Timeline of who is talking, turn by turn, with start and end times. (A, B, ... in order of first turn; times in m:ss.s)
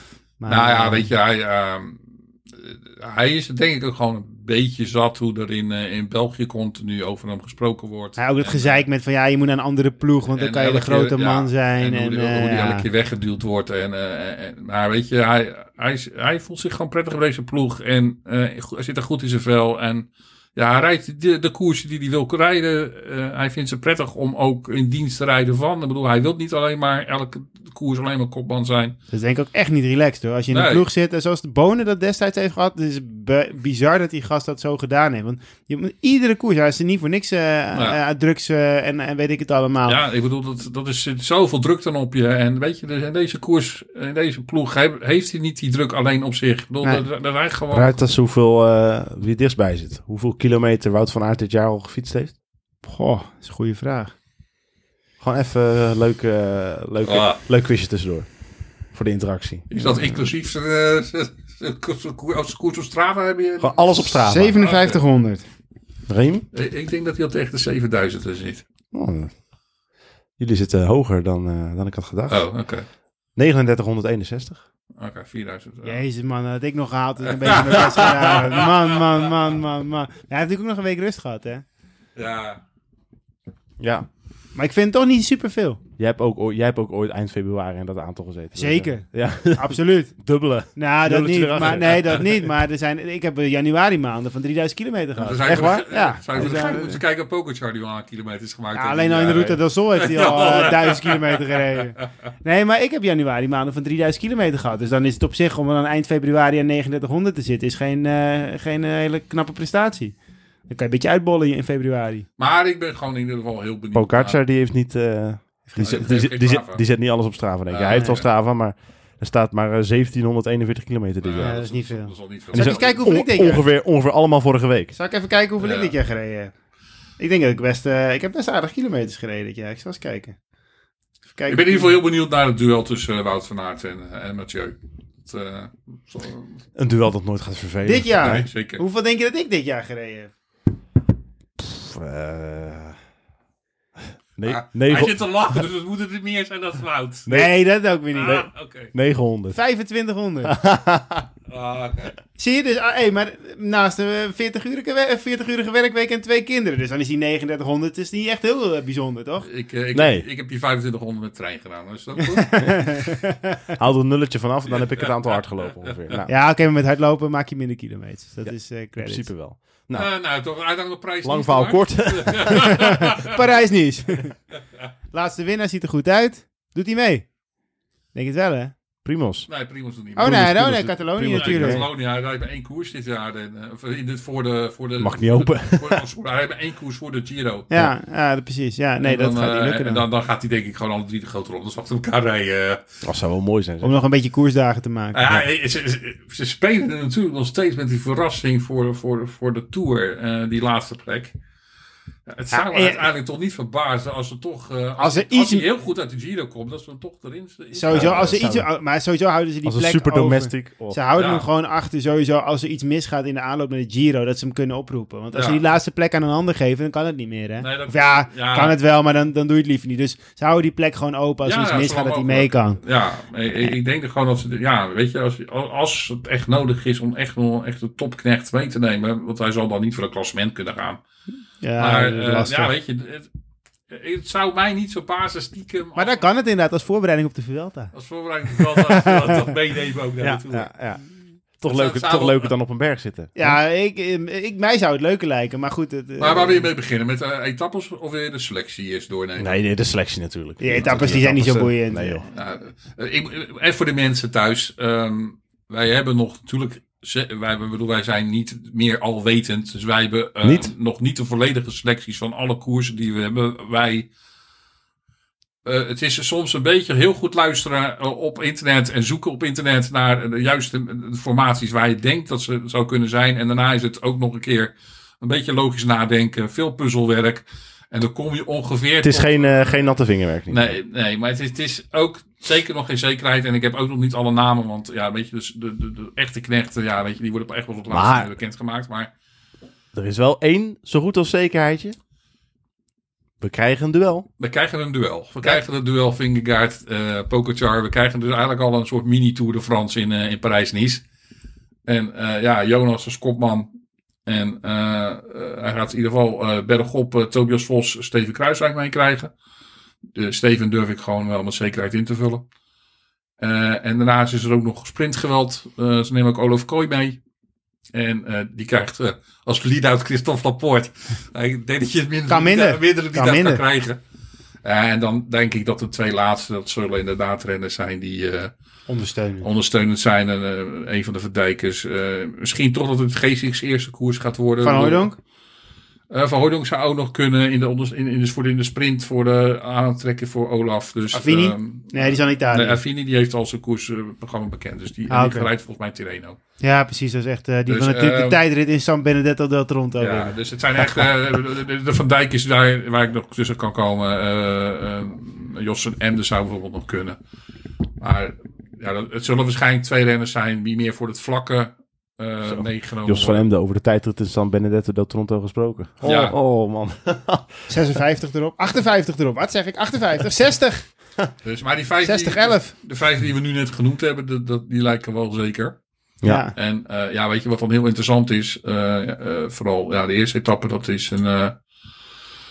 0:00.4-0:01.1 A
0:00.5-0:08.8 B
0:08.2-0:12.8 A
0:10.3-0:29.0 B
0:29.1-0:40.0 A
0:30.5-0:30.8 B
0:37.7-0:38.0 B
0:39.8-0:47.9 B
0:47.7-0:52.3 C
0:52.8-0:54.1 A
0:55.2-0:58.3 C
0:57.0-0:57.4 B
0:58.9-0:59.7 C
0:59.7-1:05.0 B
1:03.6-1:04.5 C
1:04.2-1:05.4 A
1:06.1-1:06.4 C
1:06.5-1:08.6 B
1:08.9-1:09.3 C
1:10.4-1:12.4 C
1:12.3-1:12.8 B
1:13.4-1:14.6 C
1:15.0-1:16.0 B
1:15.8-1:21.6 A
1:17.2-1:19.0 B
1:22.2-1:22.6 B
1:23.8-1:24.1 C
1:24.5-1:25.8 A
1:26.0-1:32.4 C
1:28.5-1:30.1 A
1:30.7-1:37.0 A
1:35.2-1:42.0 B
1:35.4-1:35.9 C
1:38.7-1:50.2 A
1:50.7-1:52.3 A
1:52.4-1:54.4 B
1:53.9-2:01.6 C
1:55.8-1:56.8 B
1:57.7-1:58.2 B
2:01.2-2:03.0 B
2:01.4-2:03.6 A
2:02.5-2:04.9 C
2:04.9-2:06.5 A
2:05.6-2:05.9 B
2:07.2-2:10.4 A
2:11.3-2:11.9 A
2:11.5-2:16.6 B
2:16.8-2:18.5 C
2:17.8-2:20.3 A
2:18.2-2:18.8 B
2:21.6-2:23.0 C
2:24.4-2:25.2 C
2:24.4-2:27.3 B
2:27.3-2:27.5 C
2:27.3-2:28.4 A
2:28.1-2:28.9 B
2:28.1-2:29.6 C
2:29.5-2:30.6 A
2:30.4-2:31.2 C
2:31.5-2:32.1 B
2:32.4-2:39.5 A
2:39.4-2:43.0 B
2:39.9-2:40.2 C
2:42.4-2:43.6 A
2:43.8-2:46.3 C
2:44.7-2:45.5 B
2:46.3-2:49.3 A
2:48.4-2:50.1 C
2:49.9-2:53.4 B
2:51.2-2:52.8 C
2:52.8-2:54.4 A
2:55.1-2:57.3 A
2:58.1-2:58.7 A
2:59.0-2:59.5 C
2:59.5-3:00.7 B
3:00.2-3:01.9 C
3:00.2-3:01.8 A
3:01.3-3:07.7 B
3:05.0-3:06.0 C
3:07.7-3:10.0 A
3:09.0-3:12.8 B
3:13.0-3:13.9 C
3:13.8-3:15.4 A
3:15.1-3:21.3 B
3:22.3-3:28.3 B
3:22.5-3:23.0 A
3:25.0-3:25.6 A
3:27.7-3:42.8 A
3:27.9-3:28.7 C
3:29.6-3:31.0 C
3:31.1-3:31.5 B
3:35.3-3:35.6 B
3:37.6-3:38.7 B
3:41.4-3:51.0 B
3:51.6-3:52.7 A
3:51.8-3:53.3 B
3:53.9-3:56.3 B
3:56.0-3:57.9 A
3:57.9-4:00.7 B
3:58.5-3:59.4 A
4:00.2-4:03.6 C
4:01.6-4:02.5 B
4:03.4-4:06.7 A
4:06.2-4:09.5 B
4:09.4-4:12.2 C
4:10.6-4:12.2 A
4:12.3-4:24.1 B
4:20.4-4:20.7 C
4:25.6-4:49.1 B
4:39.0-4:40.8 C
4:47.9-4:48.3 C
4:49.9-4:52.0 C
4:53.4-4:54.3 C
4:54.4-5:01.0 B
5:01.8-5:03.7 B
5:04.2-5:09.3 B
5:10.1-5:12.4 B
5:13.4-5:17.2 B
5:17.9-5:24.0 B
5:22.3-5:23.6 A
5:24.6-5:28.5 B
5:28.9-5:29.5 A
5:29.4-5:35.1 B
5:34.6-5:35.2 A
5:36.1-5:46.4 B
5:41.1-5:42.8 A
5:45.1-5:45.5 A
5:46.6-5:51.1 A
5:47.7-5:48.4 B
5:50.0-5:57.2 B
5:58.0-6:03.4 B
6:02.4-6:07.7 C
6:06.0-6:06.3 A
6:06.0-6:06.3 B
6:07.7-6:10.9 A
6:11.4-6:15.8 B
6:12.0-6:12.7 A
6:16.2-6:16.5 A
6:16.5-6:21.6 B